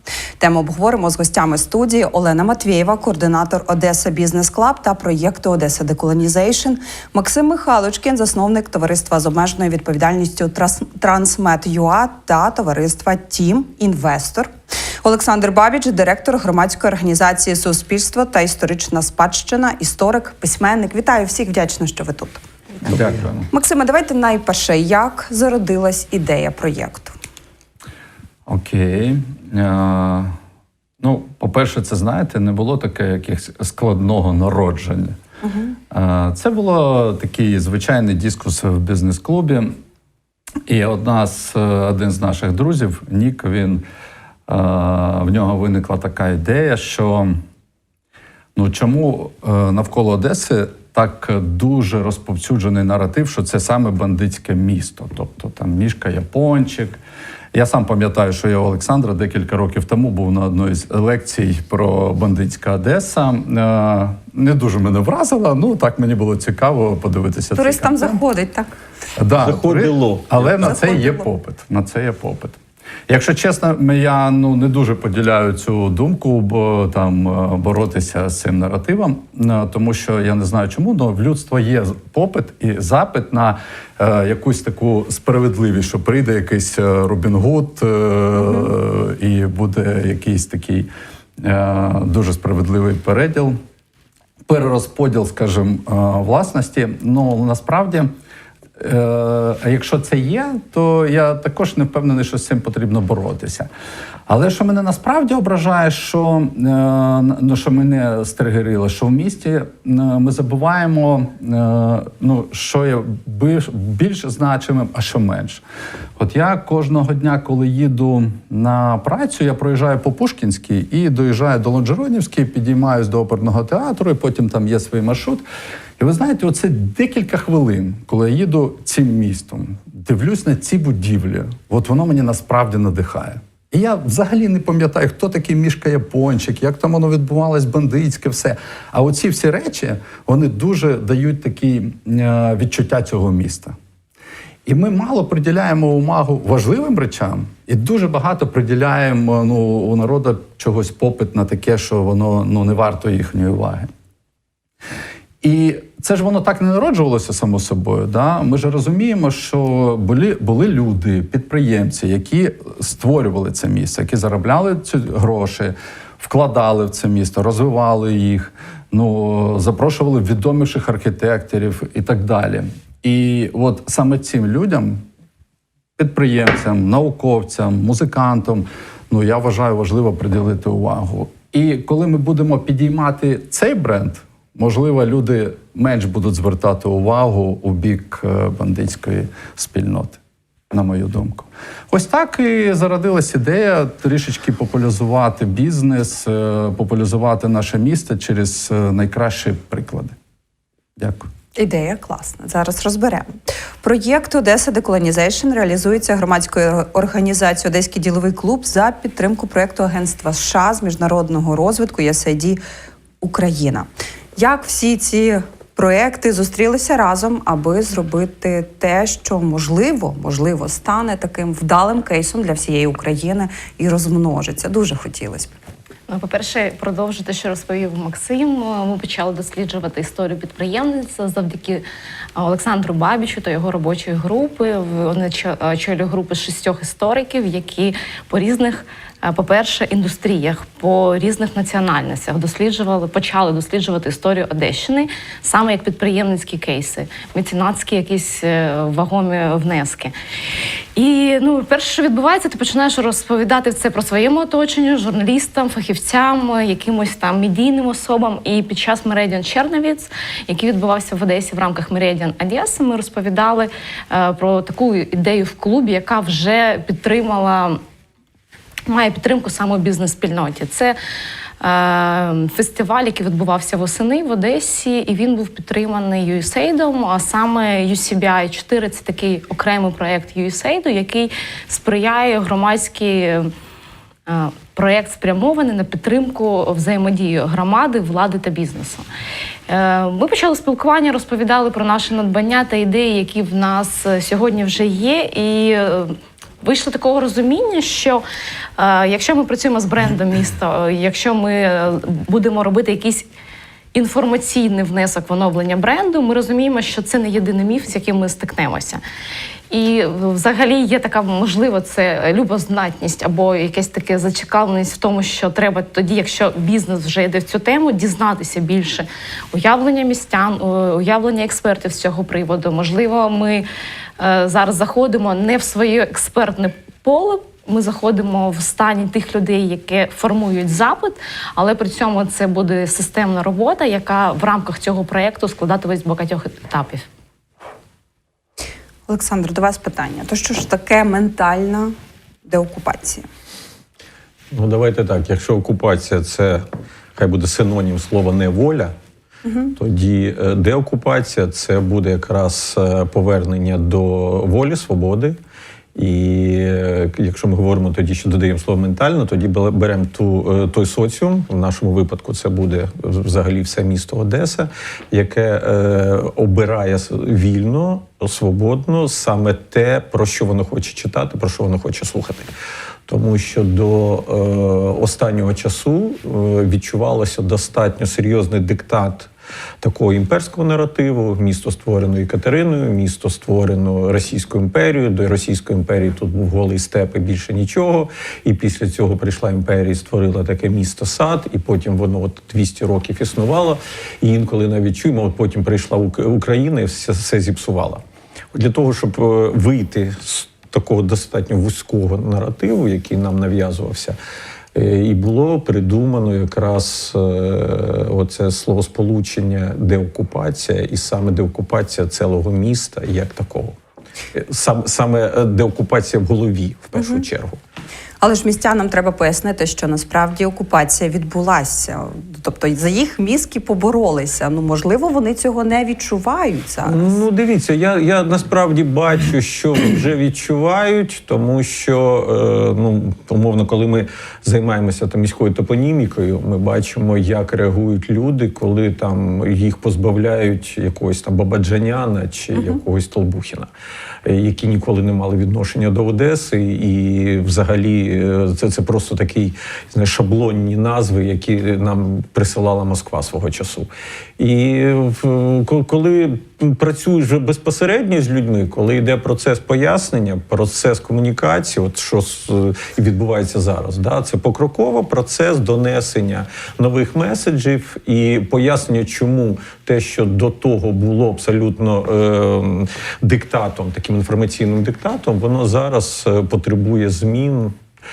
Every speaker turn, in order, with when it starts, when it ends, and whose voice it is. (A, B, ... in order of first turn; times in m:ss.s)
0:00.4-0:22.4 A
0:22.8-0:23.5 B
0:23.5-0:27.1 A
0:28.4-0:30.3 B
0:31.0-0:35.2 B
0:35.4-0:35.7 A
0:35.9-0:39.7 B
0:40.7-0:43.8 B
0:44.5-0:47.4 B
0:48.5-0:57.0 B
0:57.5-1:08.2 B
1:07.6-1:08.7 A
1:09.2-1:33.6 B
1:09.4-1:10.8 C
1:10.7-1:11.2 A
1:34.5-1:38.1 B
1:38.8-1:43.7 B
1:44.3-1:55.6 B
1:56.2-2:05.4 B
2:06.0-2:23.7 B
2:24.6-2:33.9 B
2:35.4-2:55.0 B
2:56.0-3:10.2 B
3:10.7-3:20.1 B
3:21.0-3:21.3 B
3:21.6-3:32.6 A
3:33.2-3:45.5 A
3:46.1-3:51.8 D
3:52.4-4:10.1 D
4:10.9-4:27.8 D
4:28.9-4:31.0 D
4:31.6-4:43.5 D
4:44.3-4:49.0 D
4:49.7-4:58.2 D
4:58.8-5:03.2 D
5:03.9-5:09.0 D
5:09.7-5:23.6 D
5:24.2-5:37.0 D
5:39.1-5:41.9 A
5:42.4-5:43.2 A
5:44.5-5:48.9 C
5:49.4-5:49.7 A
5:49.8-5:55.4 C
5:55.9-6:12.5 C
6:13.1-6:19.3 C
6:19.8-6:38.0 C
6:38.5-6:44.2 C
6:44.7-6:53.8 C
6:54.3-6:57.6 C
6:57.0-6:57.2 A
6:58.2-7:07.1 A
7:06.8-7:23.7 C
7:24.2-7:57.8 C